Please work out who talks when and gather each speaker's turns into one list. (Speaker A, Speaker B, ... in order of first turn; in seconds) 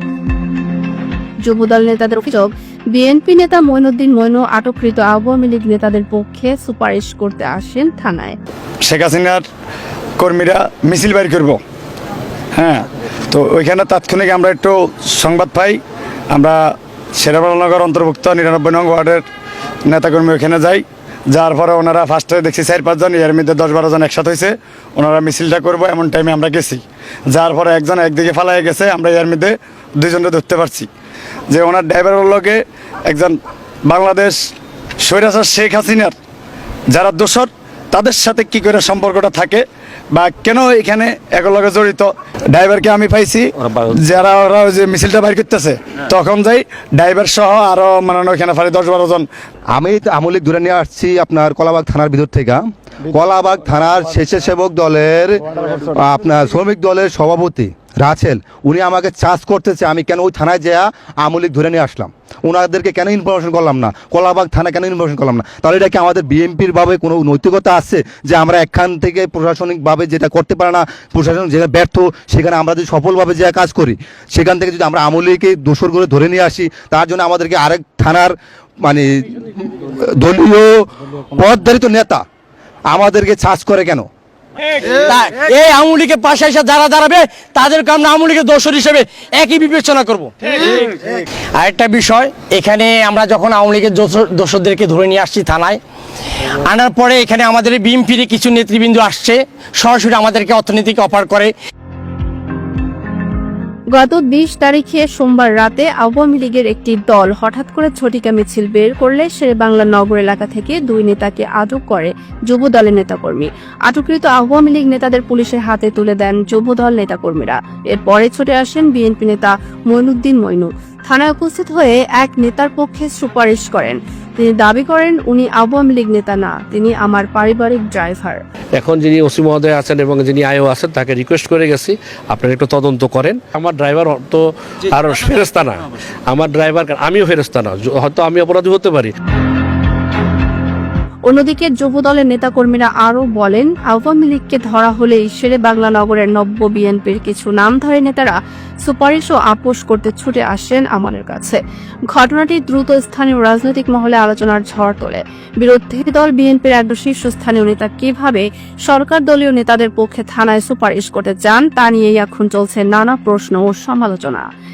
Speaker A: 1.4-8.4, 103.9-128.4, 141.3-151.6, 152.1-164.5
Speaker B: 8.9-9.4, 10.2-11.6, 12.6-15.8, 16.3-16.6, 17.2-19.2, 19.9-30.9, 31.5-34.5, 35.0-36.1, 36.9-49.3
Speaker C: 49.7-82.2, 82.9-84.1
Speaker D: 84.9-95.8, 96.5-101.5
Speaker E: 128.8-139.1